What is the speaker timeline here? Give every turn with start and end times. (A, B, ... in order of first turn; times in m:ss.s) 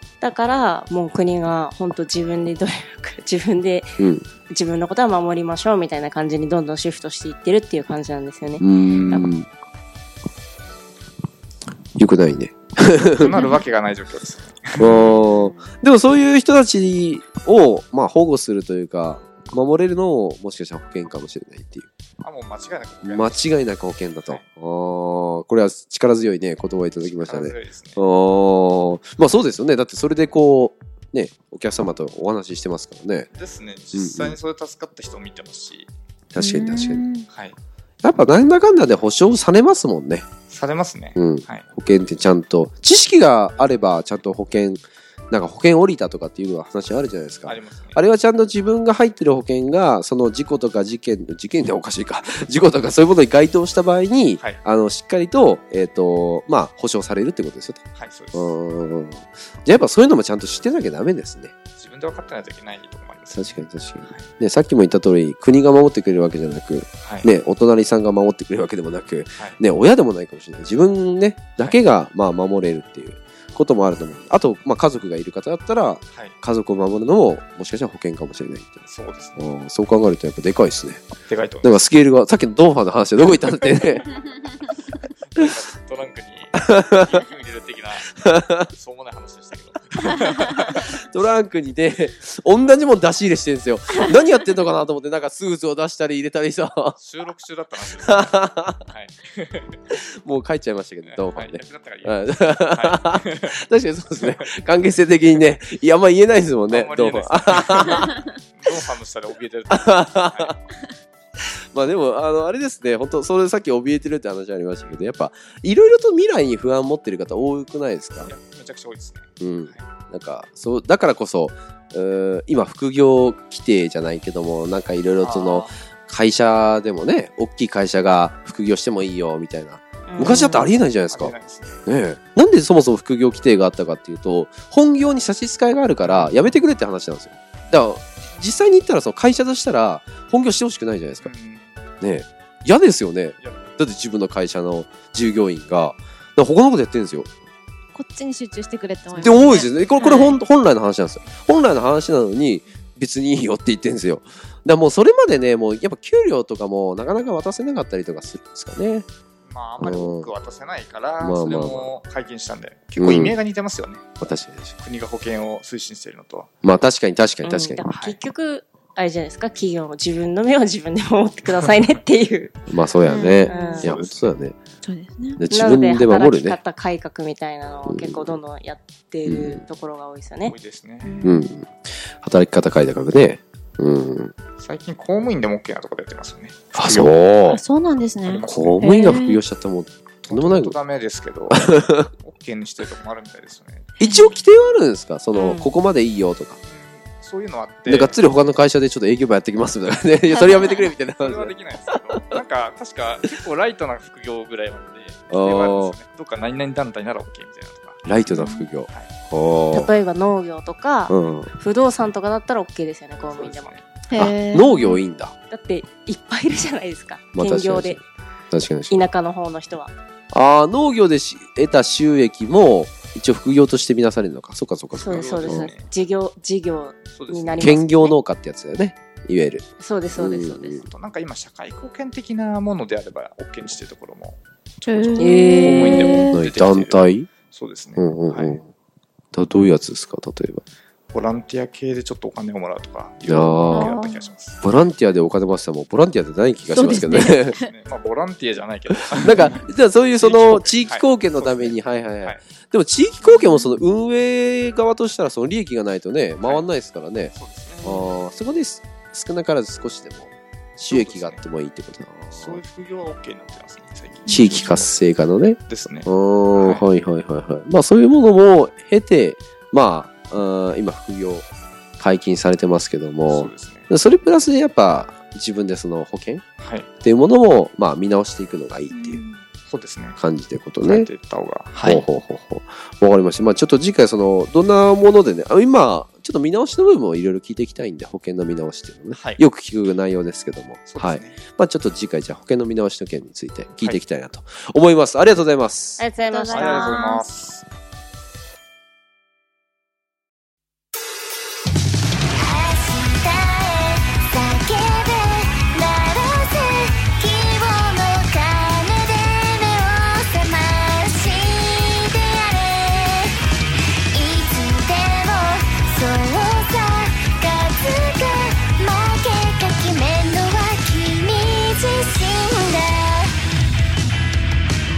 0:00.2-0:09.3 A
0:04.0-0:04.2 B
0:08.6-0:09.5 B
0:08.9-0:09.3 C
0:12.0-0:13.4 B
0:13.2-0:13.6 D
0:13.3-0:15.0 C
0:14.8-0:21.9 B
0:22.2-0:23.5 C
0:23.0-0:33.3 B
0:27.0-0:28.0 C
0:33.3-0:35.9 C
0:33.9-0:34.4 B
0:36.3-0:37.0 B
0:36.4-0:37.2 D
0:37.3-0:37.6 C
0:38.0-0:40.2 B
0:40.5-0:41.6 C
0:41.2-0:57.8 B
0:47.4-0:48.0 C
0:58.0-0:58.5 C
0:58.3-1:01.5 B
1:01.8-1:04.3 C
1:03.3-1:18.8 B
1:07.0-1:07.3 C
1:18.9-1:19.4 C
1:19.4-1:21.1 B
1:21.3-1:21.8 C
1:21.6-1:24.0 B
1:25.2-1:28.2 C
1:26.7-1:27.0 B
1:28.2-1:28.6 B
1:28.7-1:31.0 C
1:30.8-1:37.0 B
1:37.0-1:39.9 C
1:38.0-1:38.8 B
1:39.9-1:48.2 B
1:41.0-1:43.6 C
1:44.2-1:44.5 C
1:46.7-1:50.9 C
1:49.7-1:50.5 B
1:51.7-1:58.3 B
1:58.2-1:59.8 C
1:59.4-2:11.3 B
2:05.2-2:05.8 C
2:10.1-2:10.6 A
2:10.2-2:10.4 C
2:11.1-2:11.8 C
2:11.8-2:21.3 B
2:16.0-2:16.3 C
2:21.2-2:21.8 C
2:22.0-2:27.3 B
2:23.4-2:23.8 C
2:27.9-2:30.4 D
2:29.1-2:39.1 B
2:29.2-2:29.7 C
2:30.0-2:30.3 A
2:31.2-2:31.5 C
2:39.4-2:44.0 C
2:39.8-2:40.3 B
2:41.2-2:41.9 B
2:43.0-2:43.4 B
2:44.2-2:44.8 B
2:44.8-2:46.5 C
2:46.6-2:47.8 B
2:47.4-2:52.6 A
2:47.9-2:48.2 C
2:52.7-2:54.6 B
2:53.0-2:53.9 D
2:53.4-2:53.9 A
2:53.8-2:54.4 C
2:54.8-2:55.4 D
2:55.4-2:56.6 B
2:55.5-3:00.5 A
2:57.8-2:58.4 B
2:59.2-2:59.6 B
3:00.4-3:01.1 C
3:01.0-3:01.5 D
3:01.2-3:04.3 B
3:04.6-3:07.2 C
3:06.7-3:07.6 B
3:07.4-3:09.4 D
3:08.2-3:08.8 C
3:08.5-3:10.8 B
3:10.2-3:13.9 C
3:11.7-3:12.1 B
3:14.0-3:16.6 B
3:15.3-3:15.7 A
3:16.6-3:18.2 C
3:17.9-3:22.4 B
3:20.3-3:20.9 D
3:21.2-3:28.0 C
3:25.3-3:26.0 B
3:28.0-3:29.9 B
3:28.3-3:28.7 D
3:29.7-3:33.8 A
3:31.1-3:31.5 B
3:33.3-3:33.8 C
3:34.1-3:35.0 D
3:34.1-3:35.3 B
3:35.5-3:38.0 A
3:37.3-3:39.0 B
3:38.9-3:39.9 A
3:40.3-3:45.7 B
3:44.9-3:48.2 A
3:45.0-3:45.9 C
3:47.1-3:47.8 C
3:47.6-3:50.9 B
3:49.8-3:50.8 A
3:50.8-3:58.6 C
3:54.8-3:56.4 D
3:55.2-3:56.1 A
3:56.3-3:57.3 B
3:58.0-3:58.7 B
3:59.3-4:00.6 B
4:01.1-4:04.6 C
4:03.2-4:04.0 B
4:03.7-4:04.2 D
4:04.6-4:07.6 B
4:06.7-4:07.7 D
4:06.9-4:12.4 C
4:09.2-4:22.6 B
4:13.2-4:13.6 D
4:16.4-4:16.7 C
4:17.3-4:17.8 C
4:20.9-4:21.4 C
4:22.3-4:24.9 C
4:24.3-4:24.8 D
4:24.3-4:31.5 B
4:25.7-4:26.8 C
4:32.0-4:36.4 B
4:33.3-4:33.9 C
4:36.6-4:36.9 C
4:37.0-4:39.2 B
4:38.9-4:39.4 D
4:39.7-4:40.2 C
4:40.2-4:41.1 B
4:40.8-4:42.0 C
4:41.8-4:56.0 B
4:49.1-4:49.4 C
4:50.9-4:51.4 C
4:56.0-4:57.0 A
4:56.2-4:57.3 D
4:56.5-4:57.6 C
5:02.4-5:13.5 D
5:14.1-5:23.4 D